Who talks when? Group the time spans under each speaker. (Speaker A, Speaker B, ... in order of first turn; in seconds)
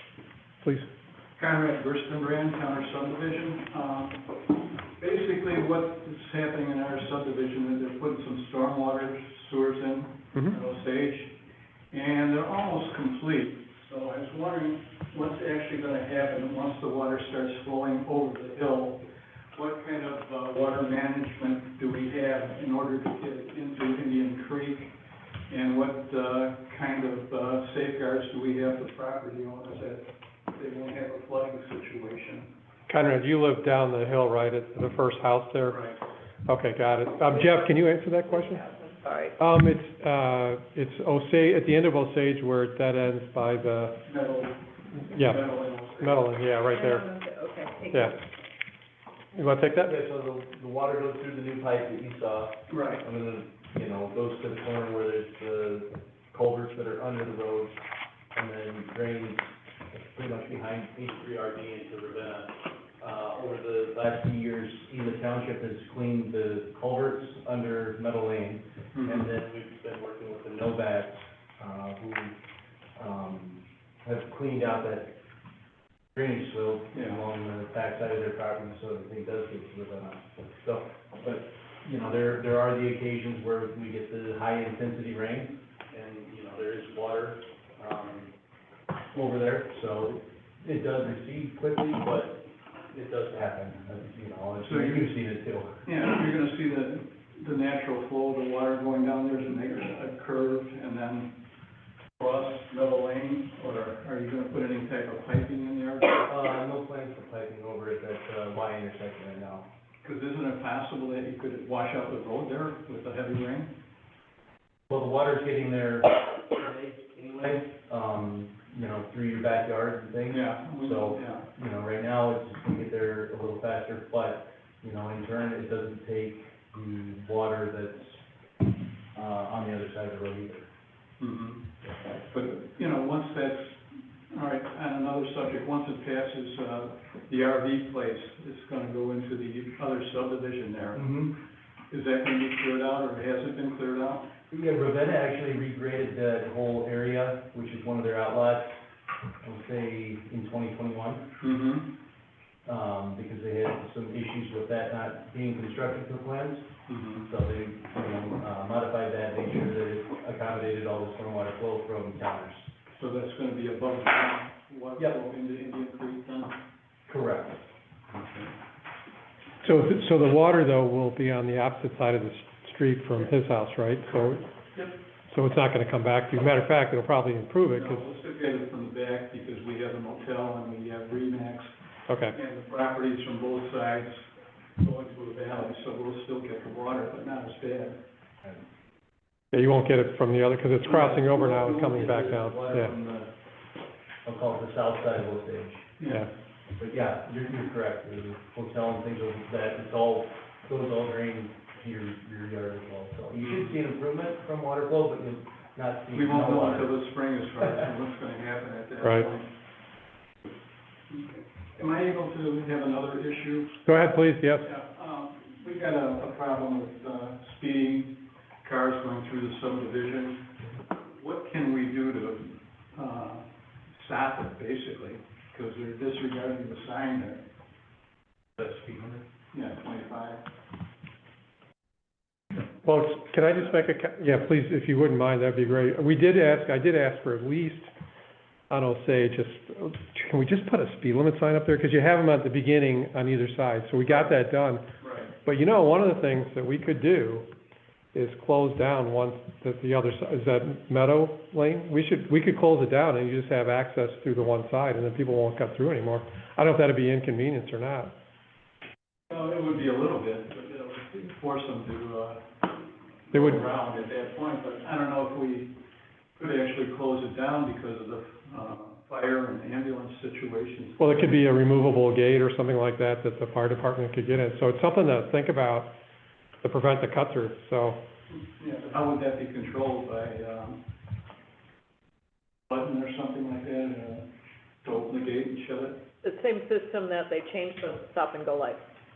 Speaker A: 1.4-4.3, 5.0-11.3, 11.9-24.9, 25.5-32.5, 35.7-36.0, 44.1-46.3, 52.7-53.0, 68.9-69.3, 76.9-77.2, 94.6-95.1, 95.8-101.4, 102.2-106.3, 110.0-113.7, 120.3-121.4, 131.2-131.7, 132.3-141.1, 141.9-144.3, 151.4-151.9, 156.9-157.3, 162.9-166.6, 168.1-168.5, 177.7-181.7, 182.3-184.2, 184.8-188.0, 196.0-196.3, 206.1-209.5, 211.1-213.8, 214.6-220.4, 221.0-227.4, 229.5-230.4, 245.0-245.3, 259.3-262.7, 263.3-265.7, 266.4-271.1, 278.6-280.8, 282.7-284.2, 284.8-286.0
Speaker B: 32.9-35.8, 36.5-38.6, 39.4-44.0, 45.1-45.4, 46.0-47.1, 47.9-48.2, 49.3-49.9, 169.6-174.4, 175.3-178.1, 182.1-182.3, 189.5-192.9, 209.0-209.3, 213.8-214.7, 232.6-237.9, 238.7-244.8, 245.4-247.4, 248.1-258.1, 263.3-263.6, 271.0-275.9, 276.6-278.0
Speaker C: 38.3-39.3, 46.7-48.1, 286.2-288.8
Speaker D: 49.8-57.8, 58.3-72.3, 73.0-75.2, 76.1-88.3, 89.1-95.8, 106.2-109.7, 114.9-128.2, 129.1-130.7, 140.9-141.3, 144.5-148.8, 149.4-151.3, 152.6-156.7, 157.2-162.7, 167.1-167.6, 190.8-193.3, 194.2-195.9, 196.8-206.9, 228.6-229.2